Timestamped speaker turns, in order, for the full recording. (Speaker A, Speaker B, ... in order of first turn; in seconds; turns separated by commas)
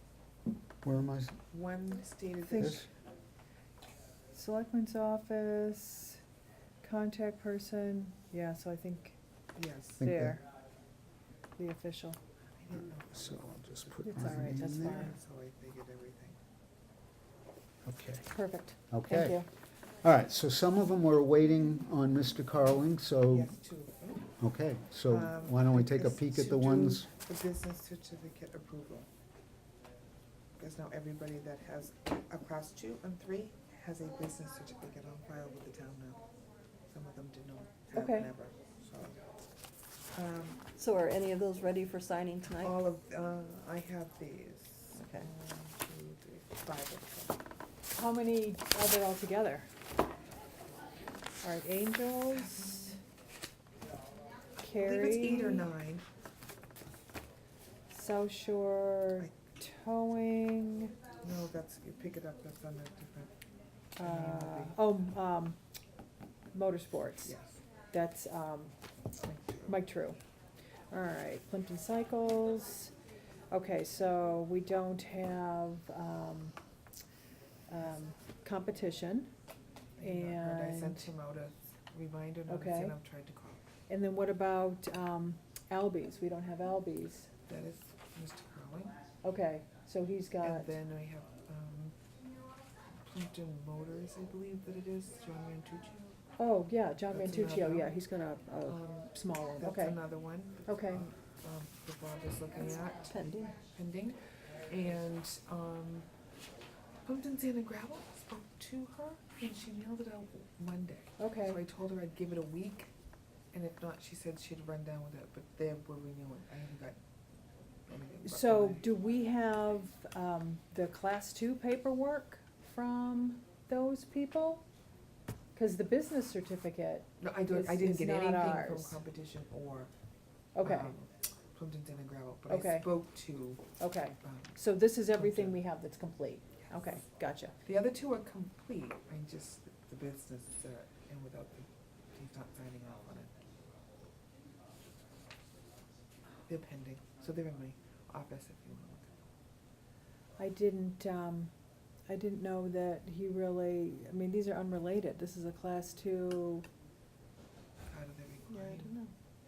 Speaker A: 0.8-1.4, Speaker B: 1.5-2.9, Speaker A: 2.6-2.9, Speaker C: 4.3-6.2, Speaker C: 6.8-9.2, Speaker B: 9.6-10.1, Speaker A: 10.0-10.4, Speaker C: 10.0-10.4, Speaker C: 11.6-12.2, Speaker B: 12.6-16.4, Speaker A: 13.1-15.1, Speaker C: 14.0-15.2, Speaker A: 17.8-18.3, Speaker C: 18.3-19.4, Speaker A: 18.9-19.4, Speaker A: 20.0-23.5, Speaker B: 23.3-24.3, Speaker A: 24.4-27.1, Speaker B: 25.1-29.1, Speaker B: 30.6-36.2, Speaker B: 36.9-39.2, Speaker C: 37.9-38.3, Speaker B: 40.1-40.6, Speaker D: 40.8-42.7, Speaker B: 42.5-47.4, Speaker D: 45.0-45.3, Speaker C: 47.9-49.7, Speaker C: 51.4-53.0, Speaker B: 52.3-53.0, Speaker C: 54.6-55.7, Speaker B: 54.7-56.1, Speaker C: 57.9-60.9, Speaker B: 61.2-63.3, Speaker C: 64.0-65.6, Speaker B: 64.0-64.8, Speaker C: 66.5-67.3, Speaker B: 67.2-67.6, Speaker C: 67.9-68.7, Speaker B: 69.2-69.8, Speaker C: 69.7-70.2, Speaker C: 70.9-72.9, Speaker C: 73.5-76.5, Speaker C: 77.7-79.3, Speaker B: 80.0-83.6, Speaker C: 80.0-81.1, Speaker C: 82.5-83.0, Speaker C: 83.9-87.3, Speaker B: 87.5-88.9, Speaker C: 89.2-90.7, Speaker B: 90.4-92.0, Speaker B: 92.9-96.2, Speaker C: 96.4-100.0, Speaker B: 97.1-98.0, Speaker B: 98.6-106.1, Speaker C: 100.6-101.0, Speaker D: 103.0-103.6, Speaker B: 107.0-112.9, Speaker C: 111.2-111.6, Speaker B: 113.5-117.0, Speaker B: 117.9-118.9, Speaker C: 118.2-124.6, Speaker C: 125.5-129.0, Speaker B: 127.2-129.9, Speaker C: 130.6-130.9, Speaker B: 130.6-133.7, Speaker C: 132.5-132.9, Speaker C: 133.8-137.6, Speaker B: 134.2-134.6, Speaker B: 135.1-135.6, Speaker B: 137.6-143.3, Speaker B: 146.5-149.3, Speaker C: 150.4-151.5, Speaker C: 152.1-156.7, Speaker B: 157.9-159.0, Speaker D: 158.5-159.1